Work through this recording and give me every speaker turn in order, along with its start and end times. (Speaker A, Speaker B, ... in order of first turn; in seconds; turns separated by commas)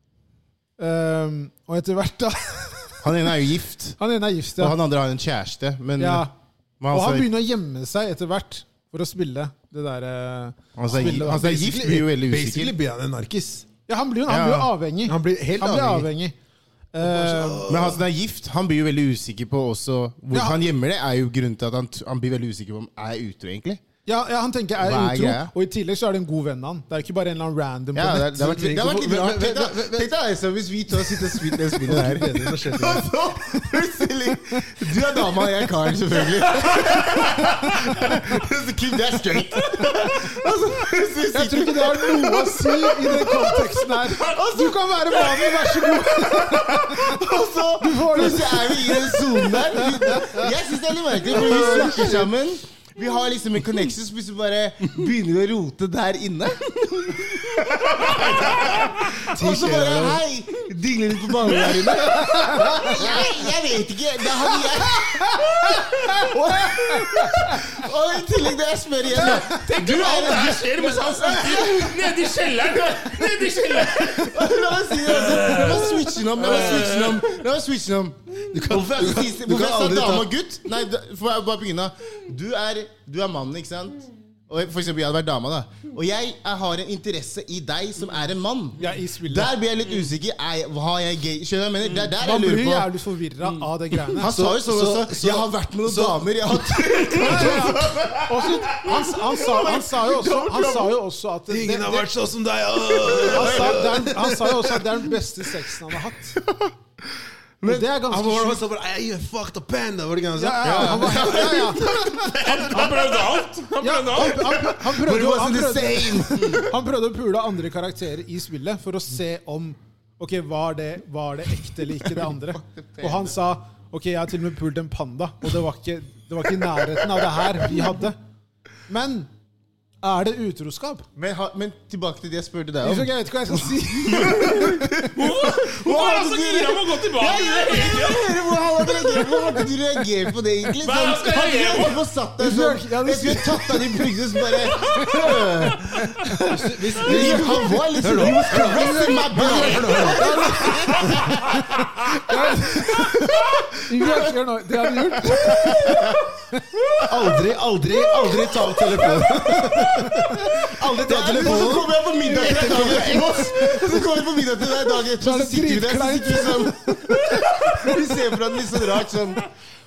Speaker A: 0.8-3.1, Speaker B: 3.0-4.0, Speaker A: 4.0-4.8, Speaker B: 4.6-6.3, Speaker A: 6.0-6.3, Speaker B: 6.8-7.3, Speaker A: 6.9-11.6, Speaker B: 10.8-12.7, Speaker C: 10.9-13.7, Speaker A: 13.9-16.3, Speaker B: 14.3-14.7, Speaker C: 15.0-16.1, Speaker A: 16.9-17.7, Speaker C: 17.0-18.0, Speaker B: 17.7-23.8, Speaker A: 20.3-20.6, Speaker A: 24.1-28.6, Speaker B: 24.8-25.5, Speaker B: 27.9-72.2, Speaker C: 28.3-30.1, Speaker C: 30.9-33.1, Speaker D: 36.5-37.7, Speaker A: 41.3-47.2, Speaker A: 47.8-50.5, Speaker A: 51.2-52.3, Speaker C: 51.4-52.2, Speaker D: 57.9-58.3, Speaker C: 59.1-60.2, Speaker A: 61.5-63.2, Speaker A: 65.2-67.7, Speaker D: 69.2-77.4, Speaker B: 73.8-92.9, Speaker C: 78.5-80.3, Speaker A: 88.8-89.5, Speaker A: 92.2-94.3, Speaker C: 94.2-97.5, Speaker B: 94.2-101.0, Speaker A: 97.2-102.1, Speaker C: 101.5-105.0, Speaker B: 102.9-104.0, Speaker A: 103.1-106.4, Speaker B: 106.4-106.7, Speaker B: 107.6-107.9, Speaker A: 107.6-108.6, Speaker C: 108.1-111.7, Speaker A: 110.3-112.1, Speaker B: 110.6-113.2, Speaker D: 112.2-114.7, Speaker A: 113.8-128.2, Speaker B: 114.3-116.7, Speaker B: 122.7-123.3, Speaker A: 128.9-129.3, Speaker A: 130.0-131.1, Speaker B: 131.2-133.1, Speaker A: 132.8-134.8, Speaker B: 133.9-151.6, Speaker D: 134.2-139.6, Speaker D: 140.7-142.0, Speaker A: 142.4-144.1, Speaker D: 144.6-146.3, Speaker A: 144.8-145.4, Speaker A: 146.0-146.4, Speaker C: 146.4-151.3, Speaker A: 147.0-156.6, Speaker B: 152.9-154.3, Speaker B: 155.2-156.2, Speaker B: 156.8-157.3, Speaker C: 157.1-163.5, Speaker B: 158.2-169.5, Speaker A: 159.7-160.2, Speaker A: 162.2-164.0, Speaker A: 165.1-168.1